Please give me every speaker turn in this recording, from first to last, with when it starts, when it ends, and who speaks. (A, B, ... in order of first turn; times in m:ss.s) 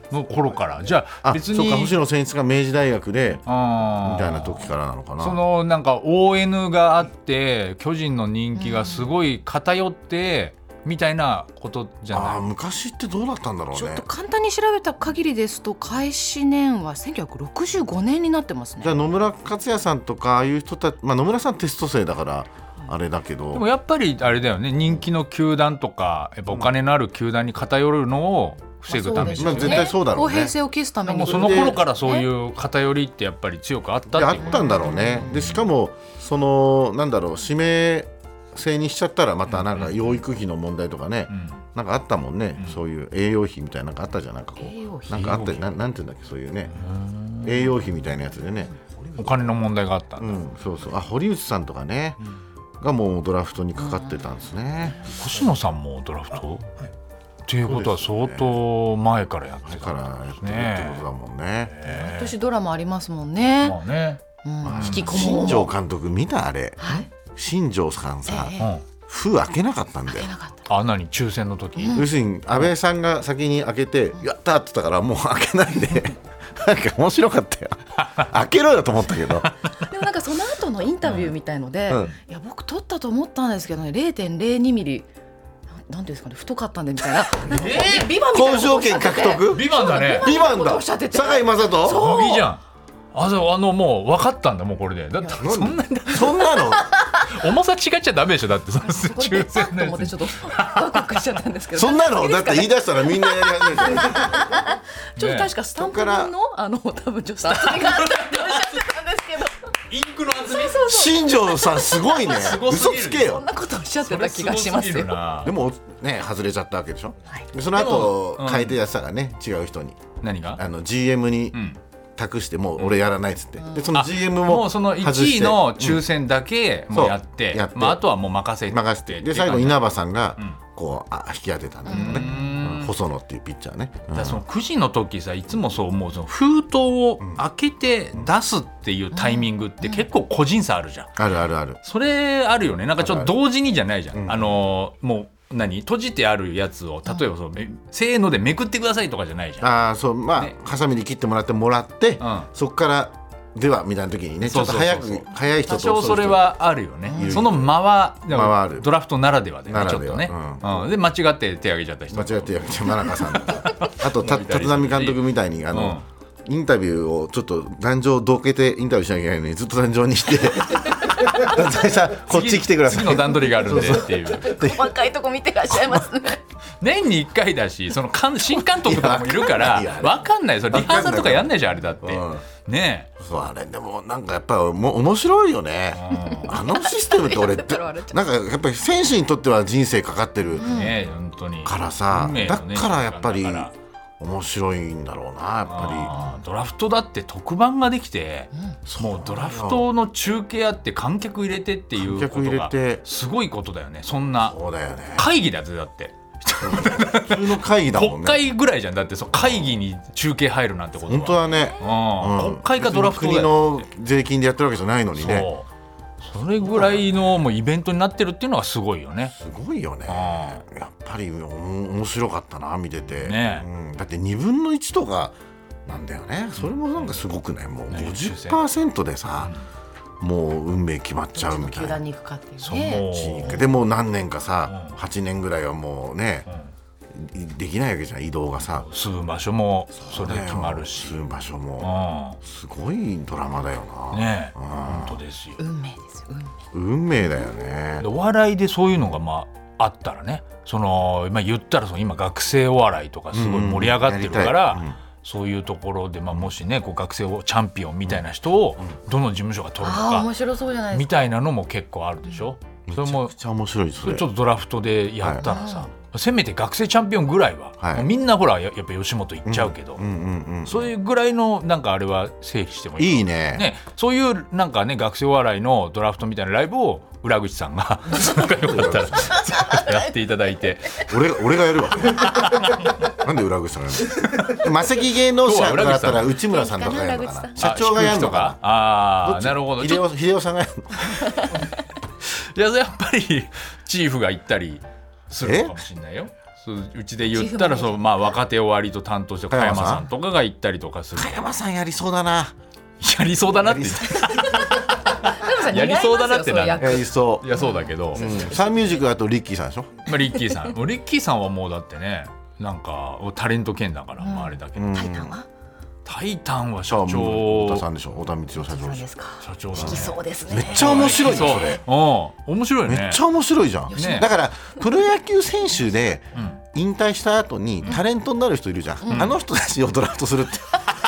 0:00.1-0:01.9 A
0:01.2-0:03.4 B
0:03.5-0:12.4 A
0:04.0-0:05.4 B
0:08.6-0:09.1 C
0:12.1-0:14.0 B
0:13.7-0:19.0 C
0:18.8-0:23.7 B
0:23.5-0:29.9 A
0:28.9-0:32.3 C
0:29.2-0:30.6 B
0:31.0-0:35.6 A
0:31.2-0:31.8 B
0:34.1-0:46.8 B
0:34.4-0:35.4 C
0:39.5-0:40.2 A
0:41.3-0:41.6 A
0:44.6-0:45.3 C
0:45.1-0:45.7 A
0:46.7-0:47.8 A
0:47.4-0:48.9 B
0:49.2-0:50.4 A
0:50.2-0:52.2 B
0:52.8-0:55.1 B
0:53.8-0:54.4 C
0:55.1-0:56.7 A
0:57.4-1:01.0 A
0:57.7-0:58.6 B
0:59.7-1:01.7 B
1:01.7-1:02.3 A
1:01.8-1:03.8 C
1:03.6-1:04.2 A
1:04.4-1:05.7 C
1:04.6-1:10.3 B
1:04.7-1:05.3 A
1:06.8-1:07.1 C
1:08.2-1:08.7 C
1:10.1-1:10.7 C
1:10.7-1:12.1 A
1:11.8-1:12.1 C
1:11.9-1:19.5 B
1:19.8-1:25.1 C
1:21.0-1:21.3 A
1:21.9-1:22.1 B
1:25.8-1:32.5 C
1:27.5-1:28.1 A
1:28.2-1:32.0 B
1:29.5-1:30.3 A
1:31.8-1:32.6 A
1:33.1-1:36.6 A
1:35.3-1:36.9 B
1:36.7-1:37.4 C
1:37.2-1:41.2 A
1:38.8-1:49.7 C
1:41.7-1:44.3 B
1:45.2-1:45.5 A
1:45.8-1:46.3 B
1:47.5-1:48.9 A
1:49.9-1:50.9 A
1:50.4-1:52.4 C
1:50.8-1:53.5 B
1:52.2-1:55.5 A
1:53.3-1:55.2 C
1:55.4-2:01.6 B
1:57.7-1:58.8 A
2:00.2-2:00.6 A
2:01.5-2:01.8 A
2:02.2-2:06.0 B
2:03.9-2:09.8 A
2:06.9-2:08.0 B
2:08.7-2:14.4 B
2:11.9-2:12.6 C
2:11.9-2:12.9 A
2:14.1-2:21.2 A
2:19.1-2:20.0 C
2:21.2-2:21.8 B
2:21.8-2:29.7 A
2:23.0-2:23.3 B
2:24.1-2:24.6 B
2:29.6-2:36.4 B
2:32.2-2:32.5 A
2:34.4-2:46.0 A
2:37.1-2:37.4 C
2:37.1-2:37.8 B
2:38.3-2:38.9 B
2:39.7-2:40.9 B
2:42.1-2:54.9 B
2:52.3-2:54.6 A
2:54.4-2:56.4 C
2:56.8-3:03.1 A
2:58.8-3:01.5 B
3:02.0-3:02.4 B
3:03.2-3:10.8 B
3:05.9-3:06.6 A
3:06.3-3:08.2 C
3:10.6-3:10.9 C
3:10.6-3:13.7 A
3:11.6-3:16.2 B
3:15.7-3:24.6 A
3:18.9-3:19.9 B
3:22.0-3:23.0 B
3:24.4-3:25.3 B
3:25.1-3:33.8 A
3:26.6-3:28.4 B
3:29.4-3:29.7 B
3:31.0-3:35.5 B
3:35.1-3:35.7 A
3:36.2-3:39.3 A
3:36.6-3:37.0 B
3:39.3-3:45.3 B
3:40.1-3:40.6 A
3:43.2-3:43.6 A
3:45.8-3:49.5 B
3:46.6-3:47.2 A
3:47.9-3:48.6 A
3:50.2-3:52.0 B
3:51.3-3:53.6 C
3:52.6-3:53.7 A
3:53.0-3:56.5 B
3:54.7-3:55.0 A
3:57.1-3:58.9 B
3:58.7-4:01.2 A
4:00.0-4:05.2 B
4:01.8-4:02.4 A
4:04.1-4:05.6 A
4:05.6-4:06.5 C
4:06.7-4:08.1 B
4:08.0-4:20.3 A
4:13.3-4:15.0 B
4:19.8-4:21.1 C
4:20.9-4:23.3 A
4:22.9-4:24.3 B
4:24.0-4:30.0 A
4:25.4-4:25.9 C
4:27.8-4:28.1 B
4:29.4-4:30.9 B
4:30.6-4:41.1 A
4:33.0-4:33.7 B
4:38.3-4:39.4 B
4:39.3-4:40.1 C
4:41.1-4:48.6 B
4:42.2-4:42.9 A
4:44.2-4:44.6 A
4:45.4-4:46.3 A
4:46.4-4:47.7 C
4:47.6-4:50.0 A
4:49.2-4:51.2 B
4:51.1-4:51.7 C
4:52.2-5:01.4 A
4:55.4-4:55.8 B
4:57.3-4:58.0 C
4:59.5-5:00.0 B
5:01.1-5:02.5 B
5:03.0-5:08.3 A
5:03.6-5:04.4 B
5:04.2-5:08.9 C
5:06.8-5:07.5 B
5:08.1-5:10.1 B
5:10.0-5:15.0 A
5:14.2-5:15.5 C
5:14.8-5:15.3 B
5:16.0-5:17.8 A
5:16.9-5:19.0 B
5:18.6-5:21.5 C
5:19.4-5:23.2 A
5:19.7-5:21.8 B
5:22.8-5:30.9 B
5:23.9-5:24.3 C
5:23.9-5:24.3 A
5:26.3-5:26.6 A
5:29.1-5:29.4 A